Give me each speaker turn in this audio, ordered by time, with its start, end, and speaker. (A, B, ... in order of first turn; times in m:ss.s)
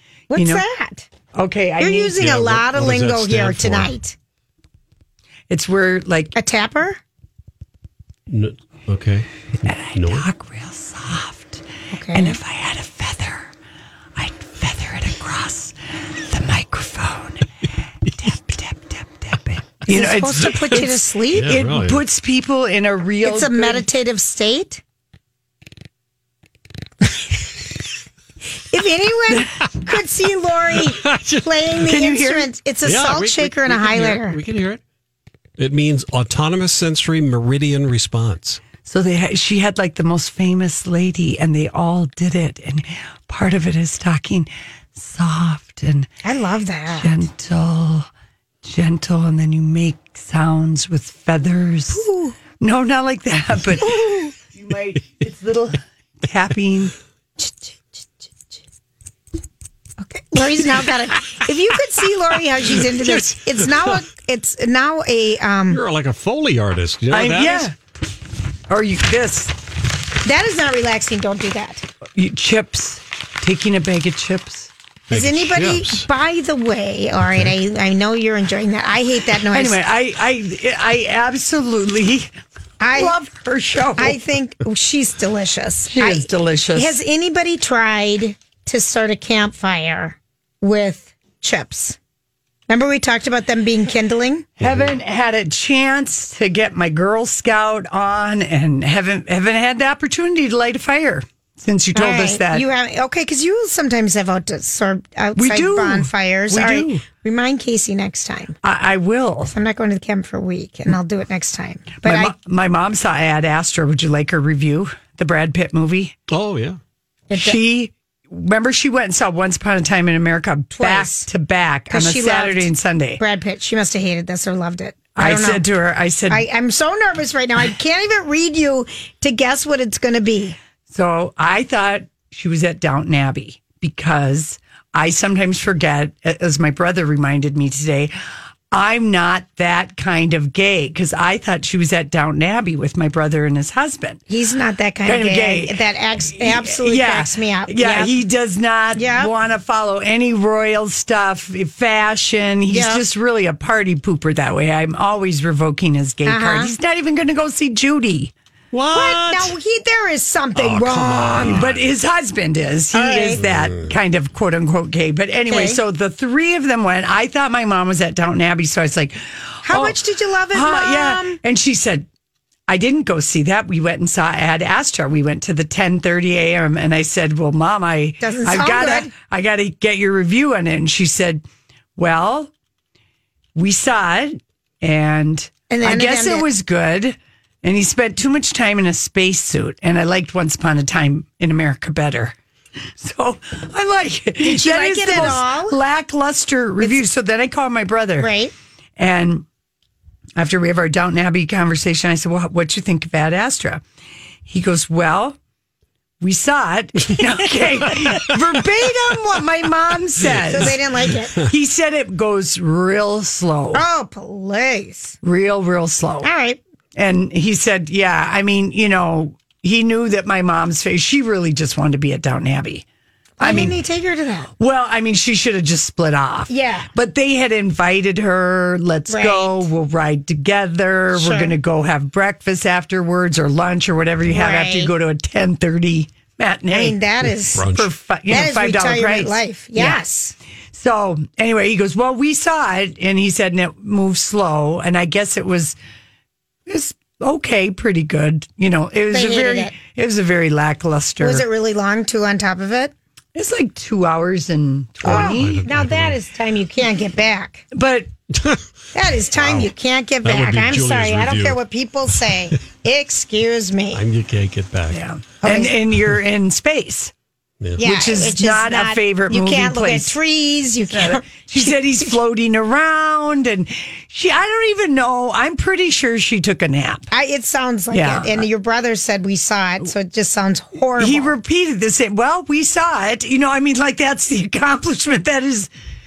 0:00.3-0:01.0 A
0:00.3-0:00.6 B
0:01.3-0:02.2 B
0:01.8-0:04.1 A
0:02.2-0:03.9 C
0:05.5-0:06.3 B
0:06.4-0:07.0 A
0:08.3-0:09.3 C
0:09.7-0:13.5 B
0:09.9-0:10.2 C
0:11.9-0:12.4 A
0:14.2-0:17.5 B
0:18.1-0:23.9 B
0:19.9-0:21.6 A
0:21.3-0:22.0 C
0:23.2-0:24.8 A
0:28.7-0:34.4 A
0:29.3-0:30.0 B
0:30.9-0:31.5 C
0:31.8-0:32.5 B
0:32.8-0:34.8 C
0:35.6-0:38.6 C
0:38.8-0:46.1 B
0:46.2-0:47.2 A
0:46.9-0:48.1 B
0:48.6-0:52.0 B
0:51.9-0:52.4 A
0:52.6-0:54.0 B
0:53.8-0:54.3 A
0:54.5-0:56.9 B
0:57.4-0:57.8 A
1:00.0-1:05.8 A
1:05.7-1:07.7 C
1:07.1-1:07.8 B
1:08.7-1:09.5 B
1:10.2-1:11.8 A
1:12.2-1:14.7 B
1:15.1-1:16.0 C
1:15.1-1:19.8 A
1:19.5-1:22.3 B
1:22.8-1:23.1 A
1:22.9-1:24.2 B
1:24.0-1:32.0 A
1:25.9-1:27.0 B
1:32.7-1:34.4 A
1:34.6-1:42.6 B
1:41.9-1:48.6 A
1:45.4-1:47.0 B
1:48.6-1:49.5 B
1:49.5-1:52.3 A
1:52.0-1:56.2 B
1:56.3-1:56.8 C
1:57.3-1:57.6 A
1:57.3-2:03.2 B
2:00.8-2:01.3 A
2:01.9-2:05.6 A
2:05.2-2:06.4 B
2:06.3-2:10.6 A
2:10.9-2:18.1 B
2:18.7-2:24.2 B
2:24.3-2:28.1 A
2:25.0-2:25.8 B
2:26.3-2:38.3 B
2:28.9-2:29.3 A
2:32.7-2:33.0 A
2:36.2-2:36.7 A
2:38.7-2:39.5 C
2:38.9-2:41.6 A
2:40.5-2:41.8 C
2:41.4-2:50.0 B
2:42.9-2:43.4 A
2:43.4-2:43.9 C
2:45.5-2:45.8 A
2:49.6-2:51.4 A
2:50.5-2:52.1 B
2:52.7-3:01.4 B
2:58.2-2:59.1 A
3:02.0-3:02.5 B
3:03.6-3:12.3 B
3:05.7-3:06.4 A
3:13.0-3:18.3 B
3:14.4-3:15.8 A
3:18.2-3:18.5 A
3:19.0-3:19.4 B
3:20.4-3:23.8 B
3:24.5-3:25.4 B
3:26.2-3:30.8 B
3:30.4-3:31.4 A
3:31.5-3:33.8 B
3:33.7-3:35.2 A
3:35.2-3:36.3 B
3:36.2-3:36.6 A
3:37.0-3:42.8 B
3:43.4-3:43.8 B
3:43.4-3:44.5 A
3:44.6-3:57.0 B
3:46.5-3:46.9 A
3:49.1-3:49.6 A
3:51.1-3:51.5 A
3:54.3-3:54.9 A
3:56.7-3:57.6 A
3:57.5-3:57.9 C
3:57.7-4:00.0 B
3:58.3-4:00.3 A
4:00.7-4:05.8 B
4:06.7-4:11.4 B
4:09.1-4:09.7 A
4:11.2-4:12.9 A
4:13.3-4:15.6 B
4:15.0-4:16.2 C
4:15.0-4:17.6 A
4:17.7-4:18.1 B
4:18.3-4:18.6 C
4:18.9-4:24.0 A
4:19.4-4:19.7 C
4:20.2-4:21.6 C
4:23.9-4:25.0 C
4:24.9-4:27.1 B
4:25.4-4:25.7 A
4:27.8-4:31.8 A
4:27.8-4:30.2 B
4:30.9-4:37.1 B
4:37.1-4:41.3 A
4:37.9-4:38.4 B
4:41.0-4:45.7 B